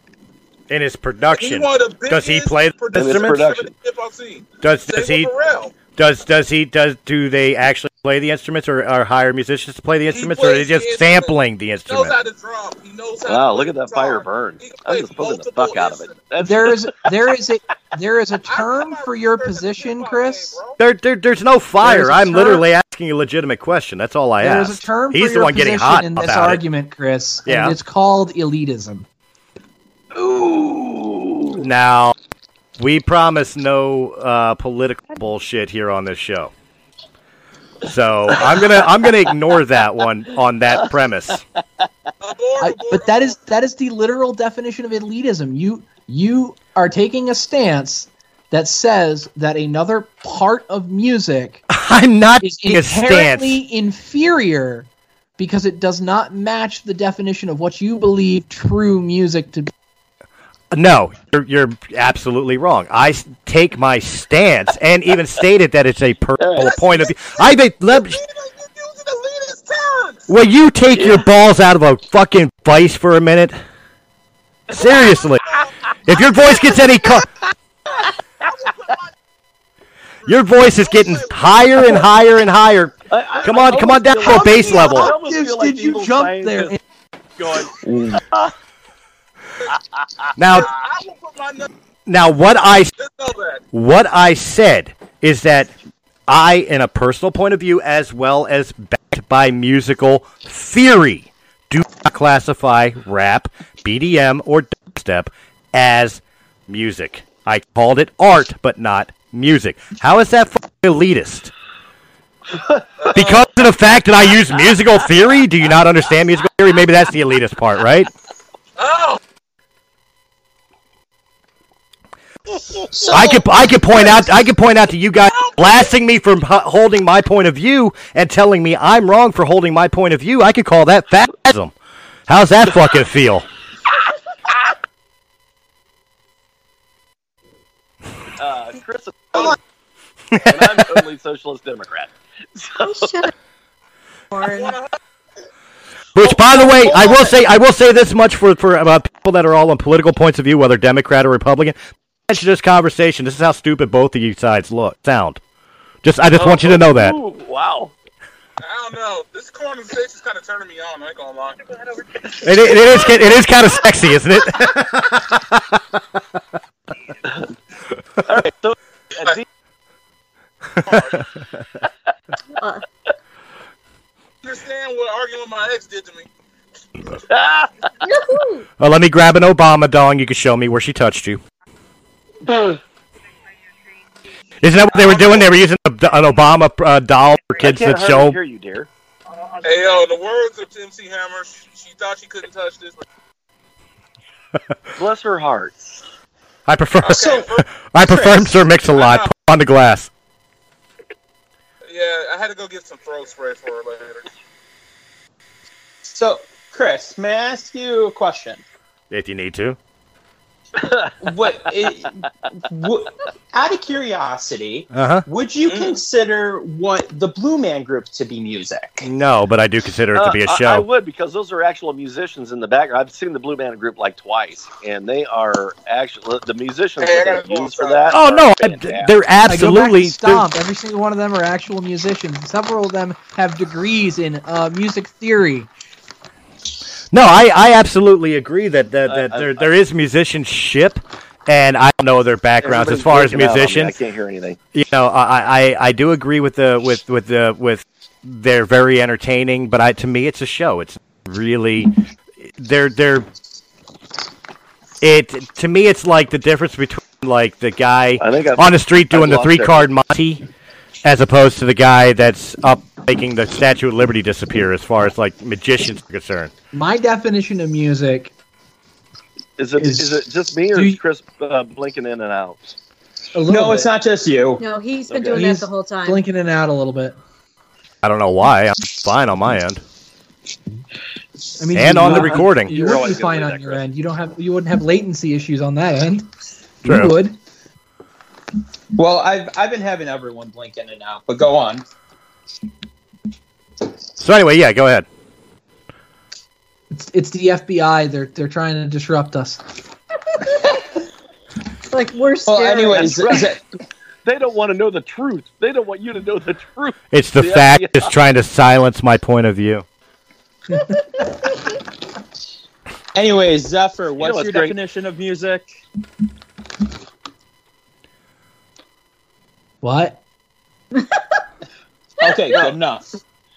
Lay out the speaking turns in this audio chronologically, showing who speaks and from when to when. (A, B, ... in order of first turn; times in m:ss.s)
0:00.7-0:03.4 A
0:01.3-0:05.7 B
0:02.9-0:03.7 C
0:04.6-0:05.3 A
0:05.9-0:12.1 A
0:10.1-0:11.3 B
0:11.9-0:16.3 B
0:13.2-0:16.9 C
0:16.4-0:20.6 D
0:18.4-0:20.8 B
0:20.8-0:26.6 A
0:21.8-0:22.6 D
0:24.4-0:29.0 D
0:27.4-0:27.8 A
0:30.1-0:31.6 C
0:31.6-0:32.1 A
0:32.8-0:36.5 A
0:37.8-0:41.4 A
0:42.2-0:43.4 B
0:42.6-0:51.6 D
0:51.7-0:53.6 A
0:52.4-0:59.7 D
1:00.7-1:08.2 A
1:06.4-1:06.7 C
1:06.6-1:10.3 B
1:10.3-1:13.6 A
1:10.9-1:11.2 C
1:14.7-1:17.3 A
1:14.8-1:16.2 B
1:17.9-1:19.1 B
1:20.2-1:22.0 B
1:20.3-1:25.1 A
1:23.1-1:26.8 C
1:24.2-1:26.8 D
1:27.4-1:28.5 C
1:29.7-1:30.3 C
1:30.4-1:30.7 A
1:30.5-1:31.7 B
1:32.1-1:32.9 A
1:33.0-1:33.6 B
1:33.7-1:35.7 A
1:36.3-1:51.5 A
1:53.0-1:53.5 B
1:53.1-1:58.1 A
1:58.8-1:59.2 B
2:03.0-2:04.2 B
2:03.1-2:11.7 A
2:05.3-2:05.6 B
2:12.3-2:13.5 A
2:18.4-2:19.6 C
2:20.3-2:21.0 A
2:20.4-2:23.2 C
2:22.9-2:23.3 E
2:24.3-2:24.8 E
2:24.4-2:24.9 B
2:26.1-2:35.4 A
2:26.2-2:27.3 E
2:36.0-2:37.2 A
2:36.3-2:37.9 C
2:38.6-2:41.8 B
2:42.4-2:46.0 A
2:48.2-2:49.4 C
2:50.8-2:51.3 B
2:52.6-2:52.8 E
2:54.4-2:56.3 B
2:57.3-2:57.7 C
2:58.0-2:58.6 E
2:58.8-3:01.4 A
3:04.6-3:08.4 A
3:05.0-3:05.5 B
3:07.6-3:08.9 C
3:09.6-3:13.0 B
3:15.0-3:15.9 C
3:16.7-3:20.1 A
3:17.0-3:17.6 B
3:18.8-3:19.3 B
3:21.9-3:24.2 B
3:26.1-3:28.6 F
3:29.1-3:29.8 A
3:30.8-3:31.6 C
3:31.2-3:32.1 F
3:32.7-3:39.0 F
3:34.9-3:35.2 A
3:35.6-3:36.0 B
3:39.0-3:40.8 A
3:40.1-3:49.1 C
3:47.0-3:48.2 B
3:48.1-3:50.5 A
3:49.5-3:55.7 D
3:57.1-4:04.0 A
3:59.1-3:59.7 C
4:02.6-4:04.6 C
4:04.7-4:11.9 A
4:12.4-4:13.2 A
4:15.0-4:20.4 A
4:18.2-4:19.9 C
4:21.0-4:26.5 A
4:26.7-4:28.3 D
4:29.6-4:32.7 C
4:29.8-4:30.2 D
4:30.7-4:31.0 D
4:33.3-4:33.9 D
4:33.4-4:34.6 F
4:34.6-4:36.2 E
4:35.1-4:35.4 C
4:35.3-4:37.2 D
4:38.0-4:39.8 A
4:41.6-4:46.3 D
4:41.7-4:42.8 A
4:42.0-4:43.8 C
4:46.8-4:47.4 D
4:46.8-4:47.2 A
4:48.9-4:51.8 F
4:54.2-4:55.1 A
4:56.9-4:59.6 D
5:01.9-5:03.3 E
5:02.5-5:03.6 F
5:02.9-5:03.5 C
5:04.2-5:08.1 C
5:07.1-5:09.8 A
5:13.1-5:15.7 F
5:14.2-5:14.8 C
5:19.8-5:20.2 D
5:22.2-5:23.1 F